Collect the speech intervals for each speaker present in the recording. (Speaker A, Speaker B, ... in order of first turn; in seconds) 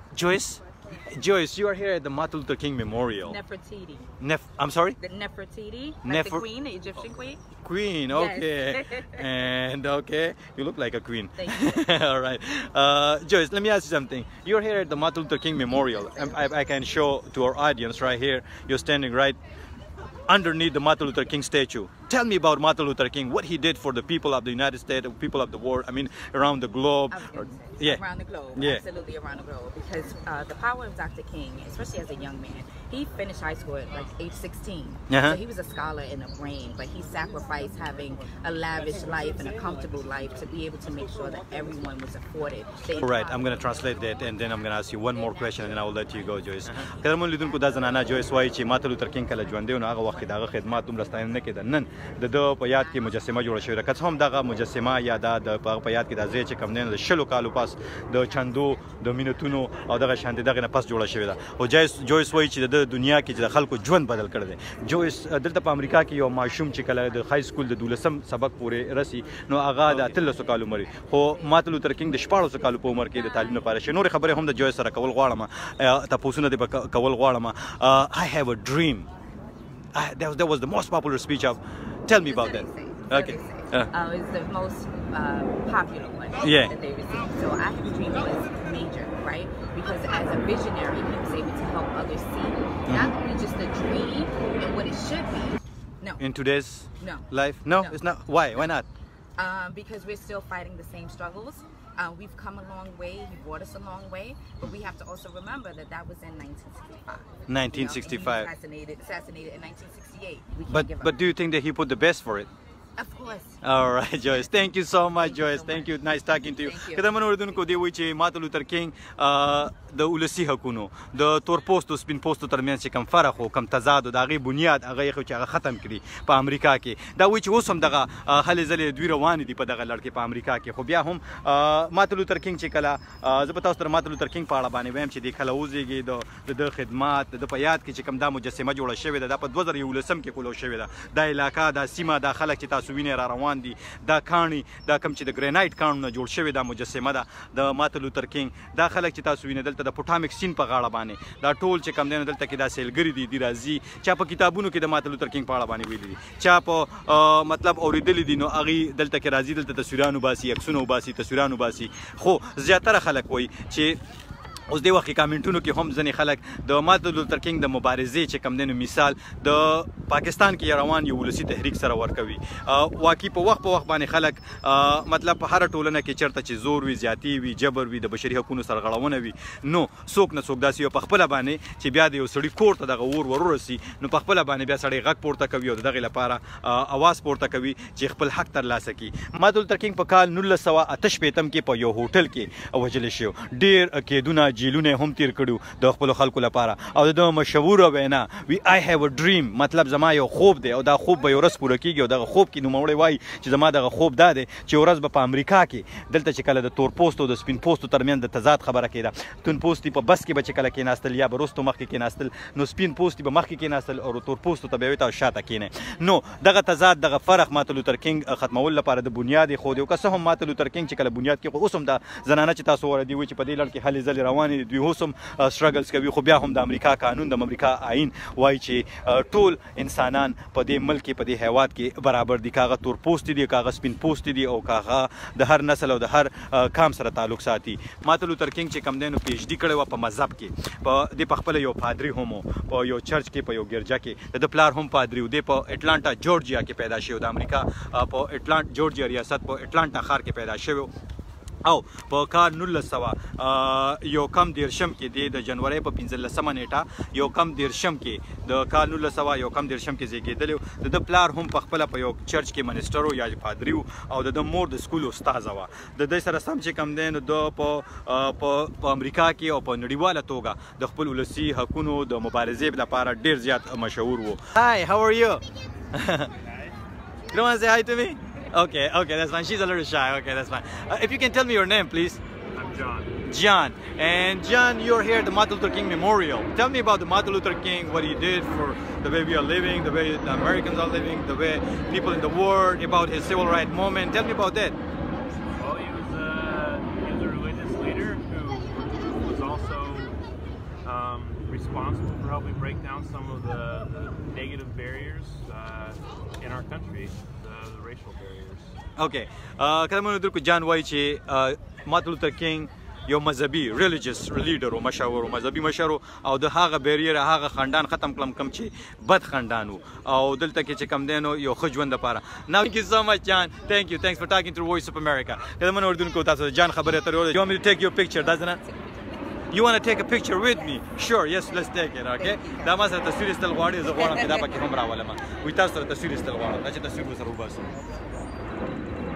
Speaker A: 0.1-3.4, 4.2-5.0, 6.0-6.5, 7.6-19.4, 20.3-28.0, 28.5-28.8, 35.1-35.4, 43.0-79.1, 79.9-83.9, 86.4-86.7, 92.8-93.1, 96.2-98.8, 107.5-108.5, 110.7-112.5, 113.6-164.0, 164.7-250.9, 251.6-276.3, 277.3-282.2, 283.2-294.8, 309.0-328.6, 329.5-337.8
Speaker B: 3.2-4.1, 5.0-7.4, 8.1-9.3, 11.3-11.8, 27.1-43.8, 45.2-46.2, 52.8-53.1, 82.2-96.2, 97.0-98.0, 99.4-111.2, 113.0-113.6, 115.0-117.1, 328.6-329.0, 332.2-332.7, 333.9-334.5
Speaker C: 282.6-283.1, 295.5-300.1, 300.8-308.7